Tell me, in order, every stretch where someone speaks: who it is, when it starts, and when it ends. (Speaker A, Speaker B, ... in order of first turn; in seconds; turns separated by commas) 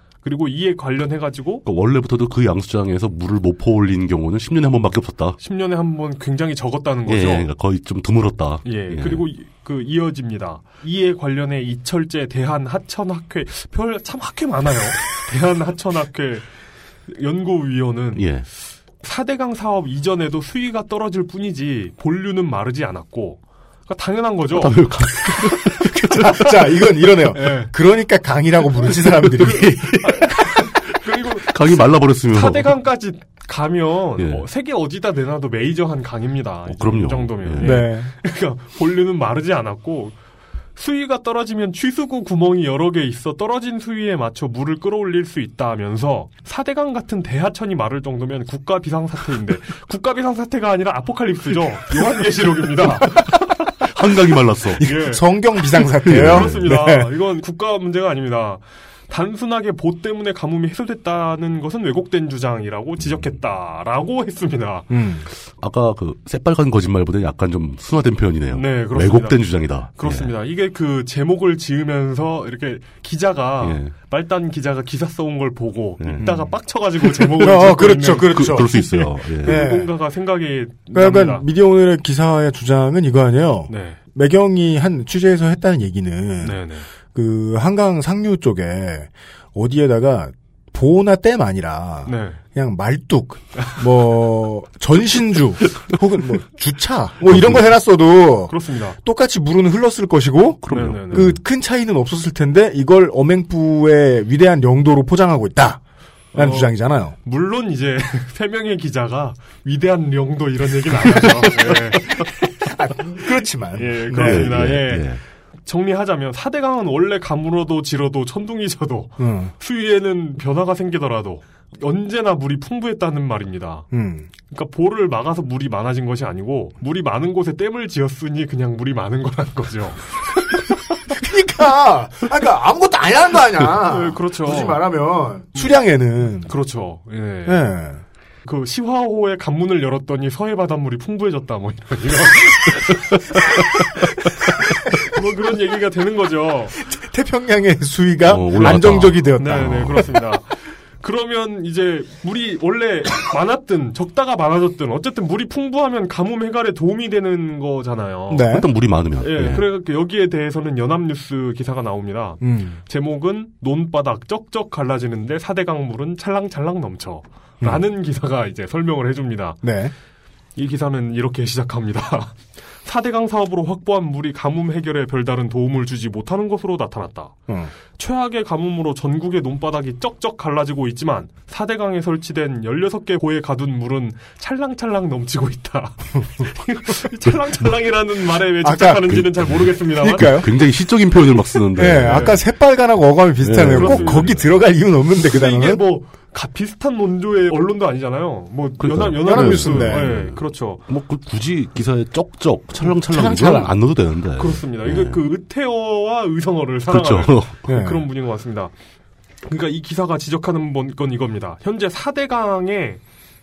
Speaker A: 0.2-1.6, Speaker B: 1.6-5.4, Speaker A: 5.4-7.5, Speaker B: 7.1-9.2, Speaker A: 8.6-16.4, Speaker A: 17.1-18.3, Speaker B: 18.1-18.4, Speaker A: 19.0-25.3, Speaker B: 24.5-26.2, Speaker C: 26.2-30.1, Speaker A: 27.3-27.7, Speaker B: 29.4-30.0, Speaker A: 29.4-40.1, Speaker B: 31.5-32.7, Speaker B: 34.2-34.4, Speaker B: 36.7-37.8, Speaker C: 37.6-38.1, Speaker A: 40.8-53.3, Speaker B: 53.9-54.8, Speaker C: 54.8-57.1, Speaker A: 54.8-55.2, Speaker B: 56.0-56.7, Speaker A: 56.1-64.9, Speaker C: 64.9-65.3, Speaker B: 65.6-70.3, Speaker A: 68.5-81.5, Speaker B: 73.6-73.9, Speaker B: 76.0-76.4, Speaker C: 77.3-79.9, Speaker B: 78.3-79.7, Speaker C: 80.9-86.6, Speaker A: 83.7-84.0, Speaker A: 86.4-86.9, Speaker C: 87.1-105.8, Speaker A: 92.0-92.4, Speaker B: 97.3-97.6, Speaker A: 98.5-99.0, Speaker B: 100.6-101.4, Speaker A: 100.7-101.3, Speaker C: 106.3-107.1, Speaker A: 106.3-112.3, Speaker C: 112.6-114.6, Speaker A: 113.8-115.1, Speaker B: 114.1-115.2, Speaker A: 115.7-123.9, Speaker C: 119.2-119.5, Speaker C: 123.9-124.3, Speaker A: 124.5-130.6, Speaker C: 131.1-136.5, Speaker A: 133.8-134.8, Speaker A: 136.4-137.7, Speaker C: 137.4-138.0, Speaker A: 138.4-144.4, Speaker A: 144.9-146.8, Speaker C: 146.8-150.0, Speaker B: 148.3-150.0, Speaker A: 149.4-158.6, Speaker C: 158.3-158.7, Speaker B: 158.5-159.6, Speaker A: 159.2-169.6, Speaker C: 162.4-162.8, Speaker C: 169.6-169.9, Speaker A: 170.6-177.4, Speaker A: 177.9-190.4, Speaker C: 188.6-189.2, Speaker B: 189.1-192.3, Speaker C: 189.9-190.5, Speaker C: 191.7-195.8, Speaker A: 191.9-192.4, Speaker B: 193.4-194.4, Speaker A: 193.6-194.5, Speaker A: 195.3-200.8, Speaker B: 198.8-205.2, Speaker C: 199.2-200.1, Speaker C: 202.8-203.7, Speaker A: 204.4-208.7, Speaker B: 206.9-207.6, Speaker C: 207.7-208.1, Speaker A: 209.4-213.0